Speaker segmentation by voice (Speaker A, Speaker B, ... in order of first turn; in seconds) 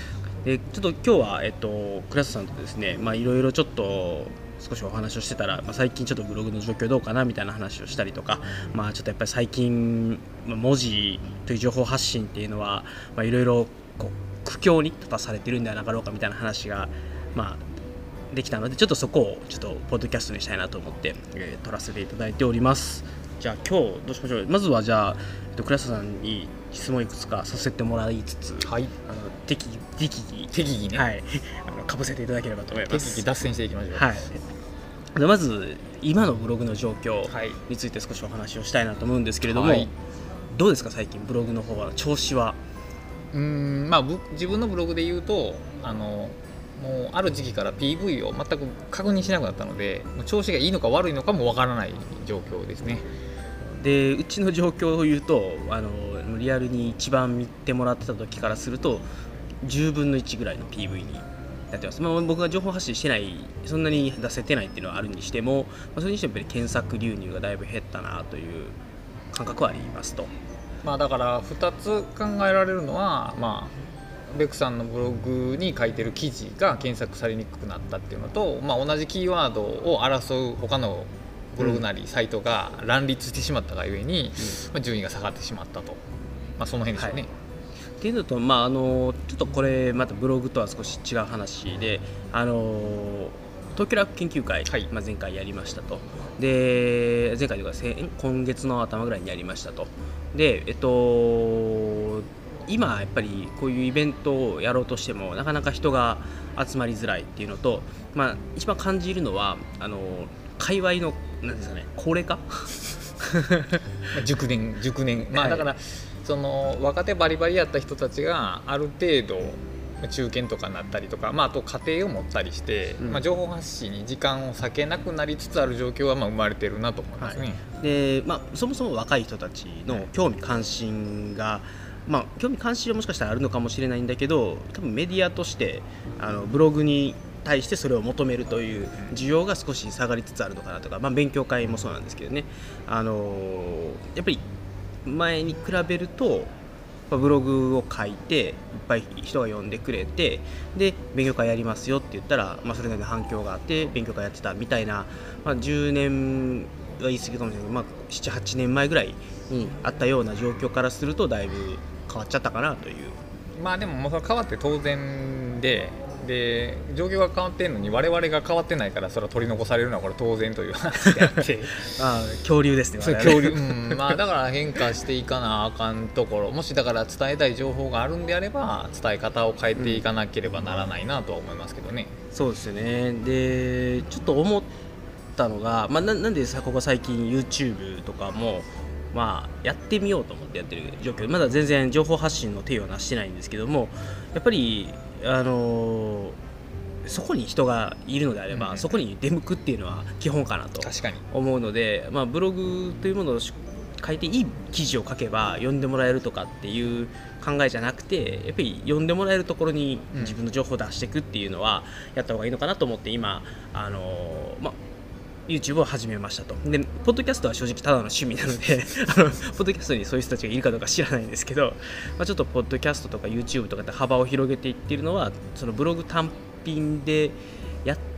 Speaker A: 0.4-17.6, 18.3-33.3, 33.9-34.3, 35.1-39.9, 40.5-42.6, 53.8-59.0, 59.6-68.8, 69.3-70.3, 88.0-113.7, 115.3-115.6, 127.2-144.4, 145.0-146.5, 147.1-163.2, 171.2-174.2, 179.8-180.0, 182.3-184.7, 185.4-196.4, 197.0-214.8, 215.5-228.0
Speaker B: 28.6-28.9, 30.5-31.0, 32.9-34.2, 37.3-37.6, 39.5-39.9, 43.3-53.0, 70.8-73.7, 74.3-86.0, 86.6-87.3, 114.1-127.6, 163.6-171.8, 173.0-182.1, 198.5-198.9, 200.8-201.2